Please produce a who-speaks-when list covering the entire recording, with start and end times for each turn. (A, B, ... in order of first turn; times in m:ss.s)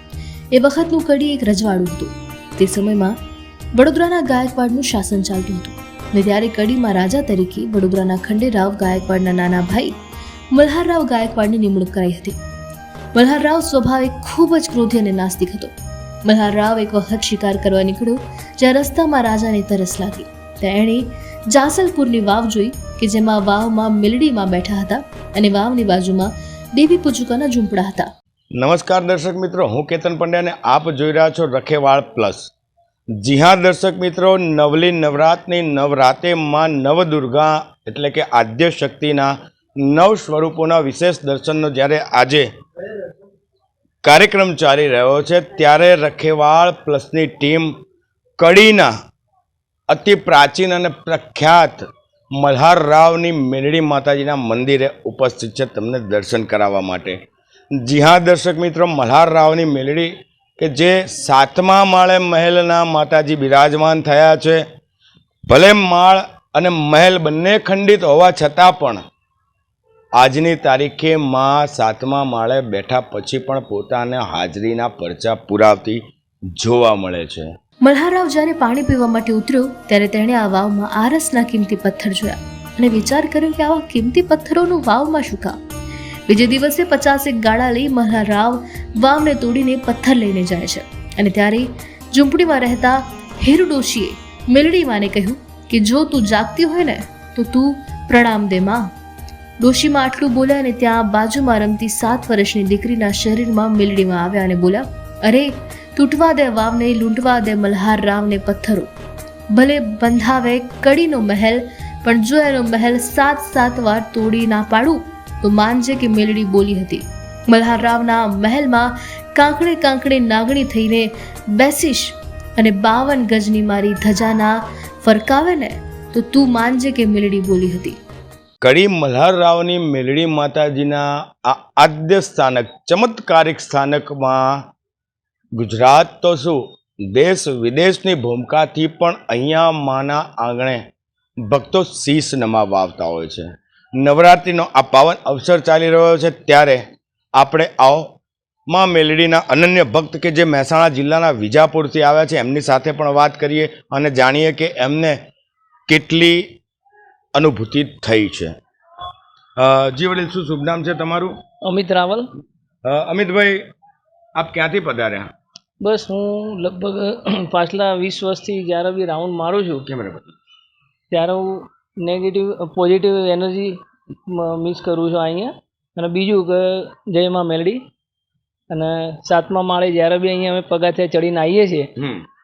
0:00.5-0:03.1 A
0:03.7-0:09.9 A
0:10.5-0:12.4 A
0:13.1-0:15.7 A
0:16.2-0:28.1 A
0:28.6-0:32.5 B
0:33.2-0:42.5 B
0:44.0-0:47.7 B
0:48.4-0:48.9 B
0:49.9-0:57.2 B
0:57.8-1:04.6 B
1:05.5-1:09.0 B
1:10.2-1:16.0 B
1:16.6-1:17.5 B
1:17.8-1:25.6 A
1:26.3-1:38.9 A
1:39.6-1:48.9 A
1:49.5-2:08.0 A
2:08.6-2:14.6 B
2:15.6-2:20.8 B
2:21.4-2:26.8 B
2:27.4-2:28.2 B
2:28.7-2:35.2 B
2:35.9-2:36.5 B
2:37.3-2:38.5 B
2:39.6-2:41.3 B
2:41.6-2:42.3 C
2:42.8-2:43.6 B
2:44.4-2:45.3 B
2:45.8-2:49.8 C
2:49.9-2:50.3 B
2:51.1-2:57.8 C
2:58.7-3:01.9 C
3:02.0-3:02.2 B